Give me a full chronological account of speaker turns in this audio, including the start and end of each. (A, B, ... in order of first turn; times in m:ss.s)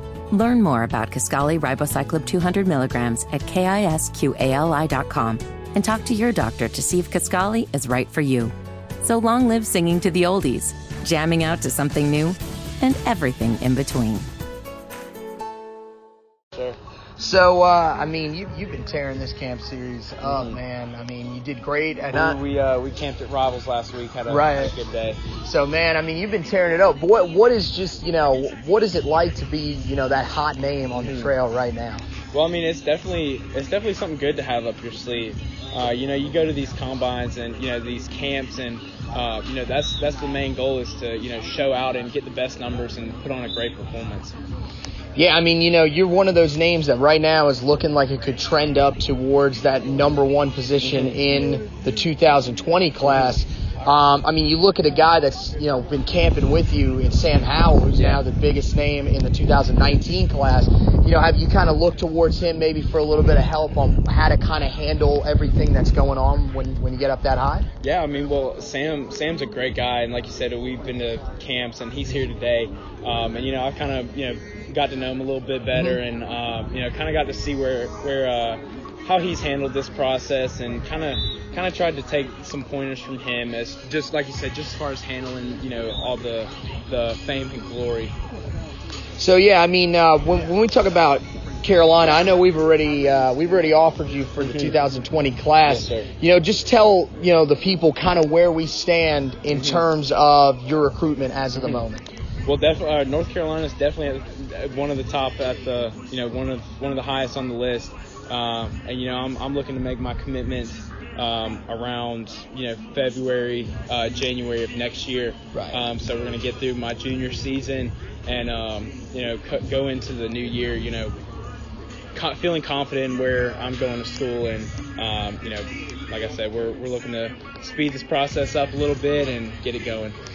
0:00.3-0:14.3 A
0:17.2-0:22.4 B
0:20.2-0:20.6 C
0:22.1-0:25.2 C
0:24.3-0:24.8 B
0:25.4-0:32.0 B
0:30.9-0:31.3 C
0:32.3-0:44.4 C
0:45.2-1:07.7 B
0:50.8-0:51.2 C
0:58.0-0:58.2 C
1:07.8-1:28.2 C
1:29.2-1:42.1 B
1:34.4-1:34.8 C
1:35.6-1:36.1 C
1:39.5-1:39.9 C
1:41.6-1:41.9 C
1:42.5-2:01.1 C
1:55.5-1:55.8 B
2:02.2-2:10.2 C